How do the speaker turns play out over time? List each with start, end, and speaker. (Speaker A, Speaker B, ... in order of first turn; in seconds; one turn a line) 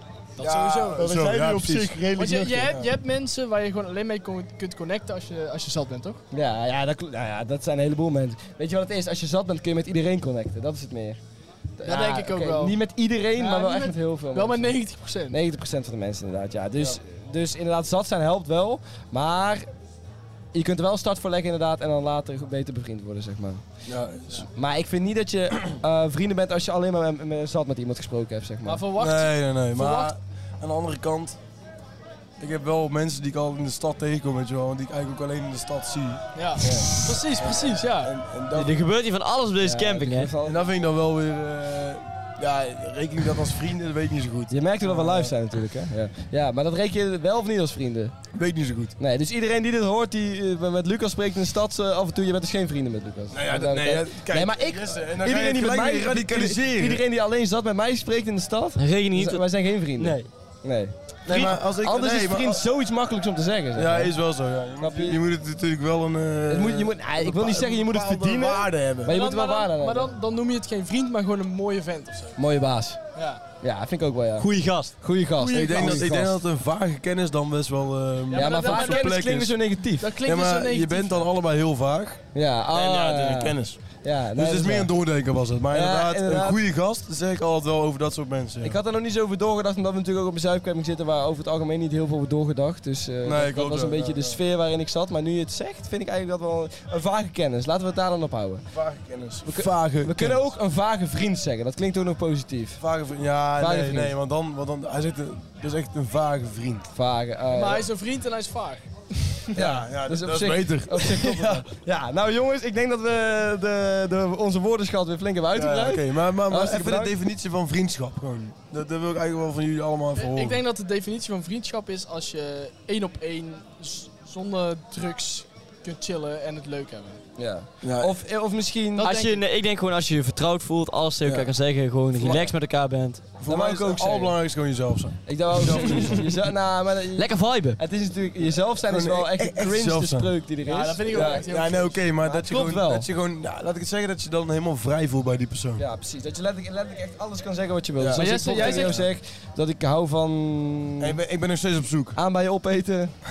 Speaker A: 0.4-1.2
Speaker B: 0.4-2.9
Speaker C: 0.4-2.4
Speaker A: 2.1-6.2
Speaker C: 6.3-11.2
Speaker C: 11.8-14.7
Speaker A: 11.8-12.8
Speaker A: 13.4-15.4
Speaker C: 15.3-19.6
Speaker C: 20.5-23.6
Speaker B: 23.9-24.4
Speaker C: 24.3-28.8
Speaker A: 28.6-30.1
Speaker B: 29.0-31.4
Speaker B: 32.4-38.8
Speaker A: 36.3-38.1
Speaker D: 38.5-40.3
Speaker C: 39.6-40.6
Speaker B: 40.4-45.3
Speaker C: 44.5-48.1
Speaker B: 48.3-48.9
Speaker C: 49.0-64.2
Speaker B: 53.3-57.0
Speaker D: 58.8-59.5
Speaker D: 60.0-60.3
Speaker B: 61.2-62.6
Speaker B: 63.8-69.2
Speaker C: 64.8-65.2
Speaker C: 66.5-70.1
Speaker A: 69.0-72.4
Speaker C: 72.4-73.0
Speaker A: 73.2-73.4
Speaker C: 73.6-76.4
Speaker D: 74.4-75.0
Speaker A: 75.4-76.2
Speaker B: 75.4-79.5
Speaker A: 78.3-79.2
Speaker C: 78.3-80.2
Speaker A: 80.0-81.3
Speaker B: 80.2-82.2
Speaker C: 82.3-84.9
Speaker B: 82.7-83.8
Speaker B: 84.3-88.8
Speaker C: 85.7-86.6
Speaker C: 88.6-98.6
Speaker B: 93.2-94.4
Speaker B: 98.7-100.4
Speaker C: 99.4-102.8
Speaker B: 102.8-106.9
Speaker C: 103.6-104.1
Speaker C: 106.9-107.8
Speaker A: 107.5-109.5
Speaker B: 109.5-111.6
Speaker C: 109.5-117.1
Speaker B: 115.5-120.6
Speaker A: 120.2-127.2
Speaker C: 127.4-129.2
Speaker B: 127.8-128.1
Speaker A: 129.0-129.4
Speaker D: 129.0-133.2
Speaker B: 131.2-131.5
Speaker B: 132.2-132.5
Speaker B: 133.4-136.3
Speaker C: 133.4-134.3
Speaker C: 135.3-141.5
Speaker D: 137.1-137.8
Speaker B: 138.9-140.3
Speaker A: 140.7-142.1
Speaker B: 141.1-145.8
Speaker C: 142.2-143.1
Speaker C: 145.8-151.2
Speaker B: 148.0-149.0
Speaker A: 148.2-149.1
Speaker B: 151.0-152.2
Speaker C: 152.1-153.1